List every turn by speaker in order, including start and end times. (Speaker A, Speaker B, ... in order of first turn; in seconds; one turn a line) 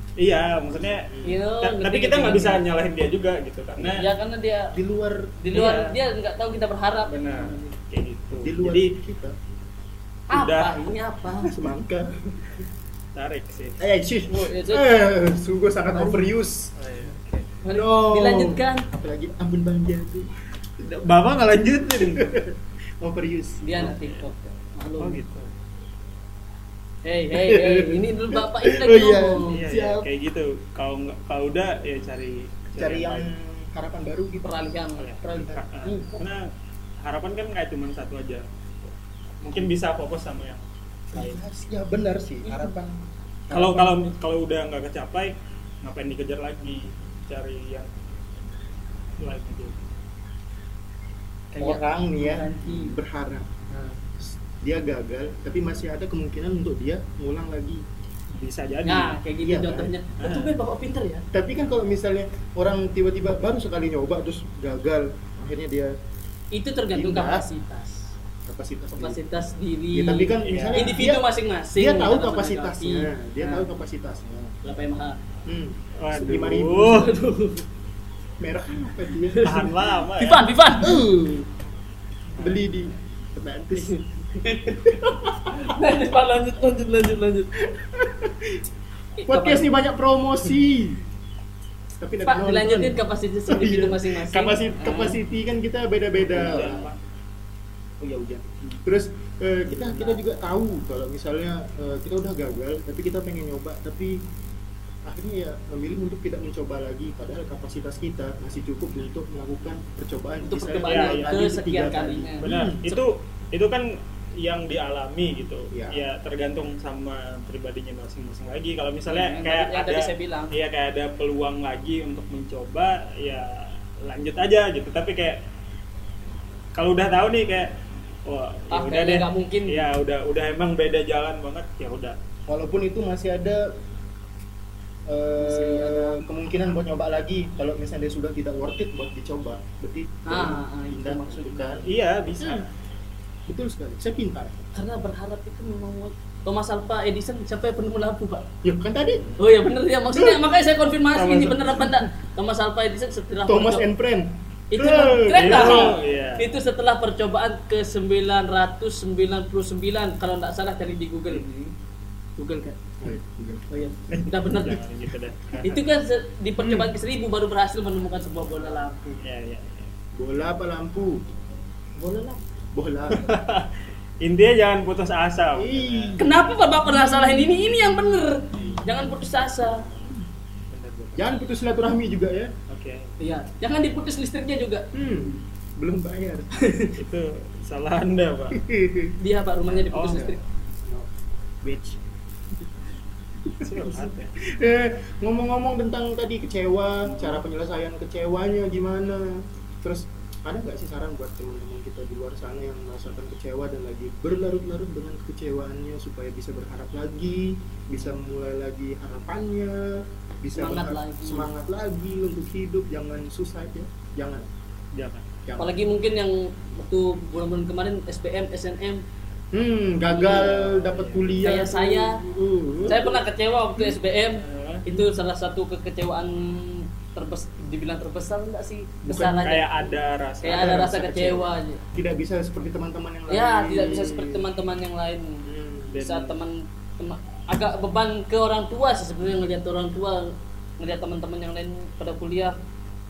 Speaker A: 0.2-4.1
Speaker B: 0.9-1.4
Speaker C: 1.2-2.6
Speaker C: 3.8-4.7
Speaker B: 4.7-5.3
Speaker C: 5.4-7.8
Speaker A: 5.5-6.0
Speaker A: 7.1-8.9
Speaker B: 8.4-9.3
Speaker C: 10.3-11.6
Speaker A: 10.3-10.9
Speaker B: 11.4-12.2
Speaker A: 13.1-13.8
Speaker B: 13.8-16.7
Speaker C: 14.3-14.9
Speaker A: 16.8-17.5
Speaker C: 17.6-18.9
Speaker B: 17.7-20.3
Speaker A: 20.8-22.4
Speaker B: 22.0-23.9
Speaker C: 23.6-25.2
Speaker A: 23.8-24.3
Speaker A: 25.0-25.5
Speaker C: 27.1-29.6
Speaker B: 27.3-30.1
Speaker A: 29.5-33.3
Speaker B: 32.8-34.6
Speaker C: 34.4-36.0
Speaker A: 35.0-36.5
Speaker B: 35.2-36.1
Speaker A: 37.0-38.5
Speaker A: 39.4-41.4
Speaker B: 41.1-44.0
Speaker C: 42.4-42.8
Speaker A: 43.5-47.9
Speaker A: 49.2-49.8
Speaker C: 51.5-53.0
Speaker B: 51.6-53.5
Speaker B: 54.2-57.8
Speaker A: 58.4-59.2
Speaker C: 58.9-61.2
Speaker B: 59.4-59.9
Speaker A: 60.2-60.5
Speaker B: 61.3-65.9
Speaker C: 66.5-68.1
Speaker B: 66.9-67.5
Speaker B: 68.5-69.2
Speaker C: 68.9-73.7
Speaker B: 69.9-74.5
Speaker A: 70.4-71.0
Speaker C: 74.6-75.2
Speaker B: 75.5-77.1
Speaker A: 76.0-77.2
Speaker C: 76.8-77.7
Speaker B: 78.4-79.7
Speaker C: 79.3-81.0
Speaker A: 79.4-80.5
Speaker B: 80.8-81.5
Speaker B: 82.4-83.9
Speaker C: 83.7-87.5
Speaker B: 84.9-85.8
Speaker B: 87.6-88.7
Speaker C: 89.2-89.7
Speaker B: 89.3-91.0
Speaker B: 92.0-96.9
Speaker C: 92.2-95.2
Speaker A: 96.2-97.0
Speaker B: 98.0-104.3
Speaker B: 105.1-112.9
Speaker C: 110.4-113.0
Speaker A: 110.9-111.4
Speaker A: 112.4-125.4
Speaker B: 115.7-116.1
Speaker C: 119.1-120.5
Speaker A: 126.8-127.7
Speaker A: 128.2-132.2
Speaker C: 128.7-129.9
Speaker B: 132.5-133.7
Speaker B: 135.1-141.9
Speaker C: 135.4-136.2
Speaker C: 140.2-141.9
Speaker A: 141.8-142.7
Speaker B: 142.4-142.7
Speaker B: 143.5-144.6
Speaker C: 144.8-148.5
Speaker B: 148.6-149.3
Speaker C: 149.4-153.9
Speaker A: 151.1-152.1
Speaker B: 153.5-156.0
Speaker C: 154.7-161.5
Speaker A: 155.3-156.5
Speaker A: 161.3-161.7
Speaker C: 162.4-162.9
Speaker B: 163.0-163.7
Speaker C: 163.7-164.8
Speaker A: 164.1-165.8
Speaker C: 165.6-169.2
Speaker B: 166.6-166.9
Speaker A: 169.2-169.9
Speaker B: 170.2-171.2
Speaker C: 172.0-172.4
Speaker B: 172.7-173.3
Speaker A: 173.1-176.2
Speaker B: 175.6-177.6
Speaker C: 176.2-179.9
Speaker B: 178.6-178.8
Speaker A: 180.7-181.3
Speaker B: 181.2-182.5
Speaker A: 182.7-183.2
Speaker C: 183.2-184.9
Speaker B: 184.9-186.7
Speaker C: 186.6-186.9
Speaker A: 186.9-188.6
Speaker B: 188.5-189.2
Speaker C: 189.2-190.4
Speaker B: 189.8-191.1
Speaker A: 189.9-190.3
Speaker B: 191.6-192.0
Speaker B: 193.4-214.5
Speaker A: 193.6-194.3
Speaker A: 197.1-197.4
Speaker C: 210.5-211.5
Speaker A: 214.9-215.2
Speaker B: 215.4-215.8
Speaker C: 215.6-219.0
Speaker B: 219.5-223.2
Speaker C: 220.1-220.6
Speaker A: 220.4-221.6
Speaker C: 221.4-222.2
Speaker C: 222.9-229.7
Speaker A: 224.4-224.9
Speaker B: 229.1-229.5
Speaker A: 229.4-231.1
Speaker C: 230.4-231.8
Speaker B: 230.5-234.5
Speaker C: 233.3-235.4
Speaker B: 235.4-236.0
Speaker A: 235.9-236.4
Speaker C: 236.0-242.6